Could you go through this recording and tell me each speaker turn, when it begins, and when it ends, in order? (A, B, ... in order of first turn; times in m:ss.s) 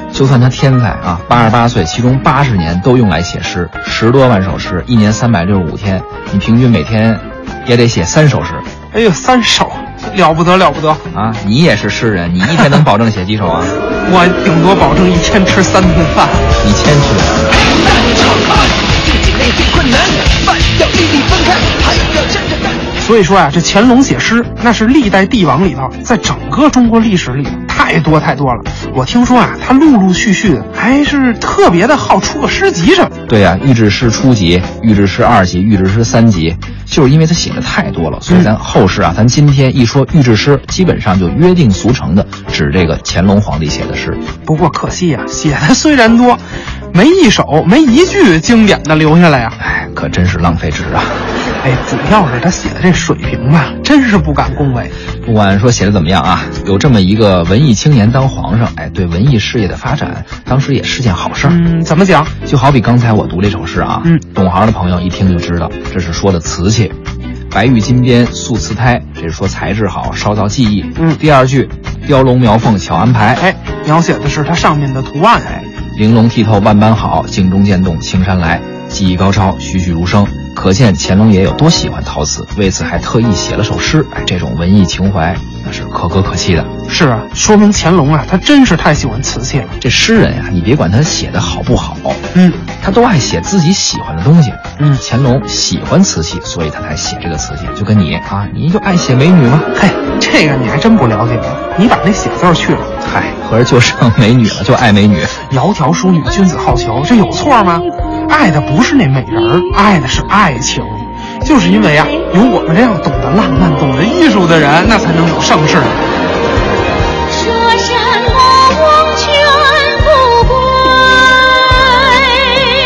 0:00.1-0:08.7 A
0:08.9-0:11.1 B
0:11.1-0:13.7 A
0:14.0-0:16.5 B
0:16.6-0:17.6 A
0:23.0-0:33.2 B
0:33.3-0:44.2 A
0:44.4-0:46.4 B
0:46.9-0:49.6 B
0:49.6-0:51.2 A
0:51.6-0:54.9 B
0:55.2-1:01.6 A
1:01.4-1:02.3 B
1:02.4-1:07.0 A
1:07.5-1:13.4 A
1:11.0-1:11.2 B
1:13.4-1:15.7 B
1:15.9-1:26.7 A
1:26.9-1:29.8 B
1:29.8-1:32.2 A
1:32.3-1:32.6 B
1:32.8-1:39.7 A
1:34.8-1:35.0 B
1:39.7-1:42.9 B
1:43.0-1:45.4 A
1:45.5-1:56.0 B
1:57.3-2:02.8 C